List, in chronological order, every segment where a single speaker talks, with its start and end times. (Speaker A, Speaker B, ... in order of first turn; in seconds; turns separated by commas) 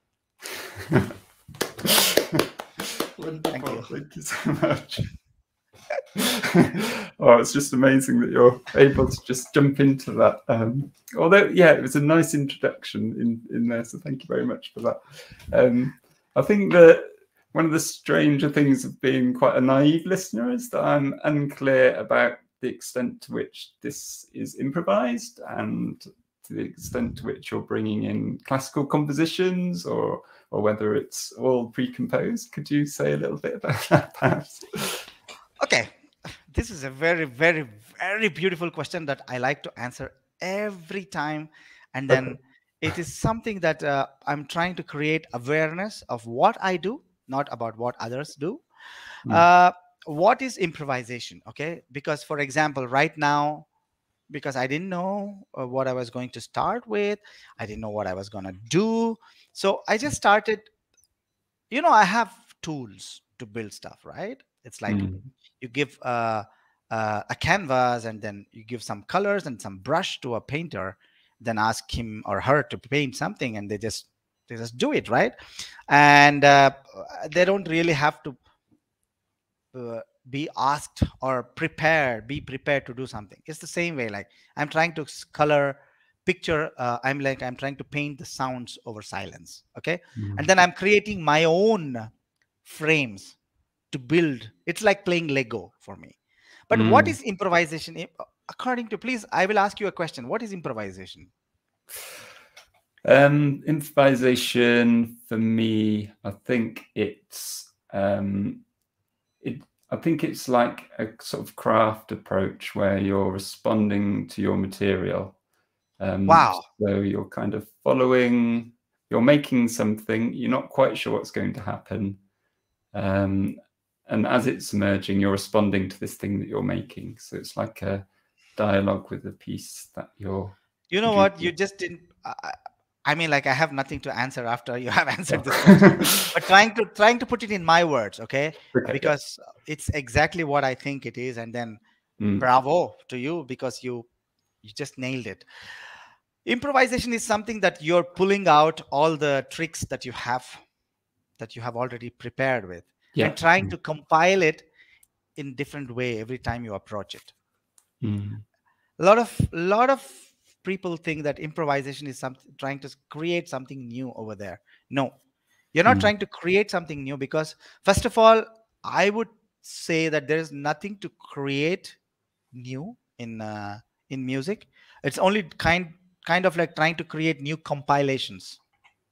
Speaker A: 1.8-2.5, Speaker A: 3.2-5.1, Speaker B: 3.5-3.9, Speaker A: 6.1-35.0, Speaker B: 35.6-35.9, Speaker B: 36.5-48.6, Speaker A: 42.1-42.4, Speaker B: 49.2-53.6, Speaker B: 54.3-60.7, Speaker B: 61.7-75.3, Speaker A: 64.9-65.3, Speaker B: 75.9-78.4, Speaker B: 79.7-92.1, Speaker A: 90.2-90.5, Speaker B: 92.6-93.3, Speaker B: 93.9-96.2, Speaker B: 96.7-101.3, Speaker A: 96.7-97.2, Speaker A: 103.0-108.6, Speaker A: 109.4-115.4, Speaker A: 116.0-122.2, Speaker B: 116.3-116.6, Speaker A: 122.9-131.5, Speaker B: 130.9-141.8, Speaker A: 135.3-136.3, Speaker A: 138.7-139.1, Speaker A: 142.2-142.4, Speaker B: 142.4-144.1, Speaker B: 144.6-145.4, Speaker B: 146.4-150.6, Speaker B: 151.4-154.7, Speaker A: 153.1-153.7, Speaker B: 155.3-157.3, Speaker A: 158.0-158.4, Speaker B: 159.0-165.1, Speaker B: 165.7-172.0, Speaker B: 172.5-178.6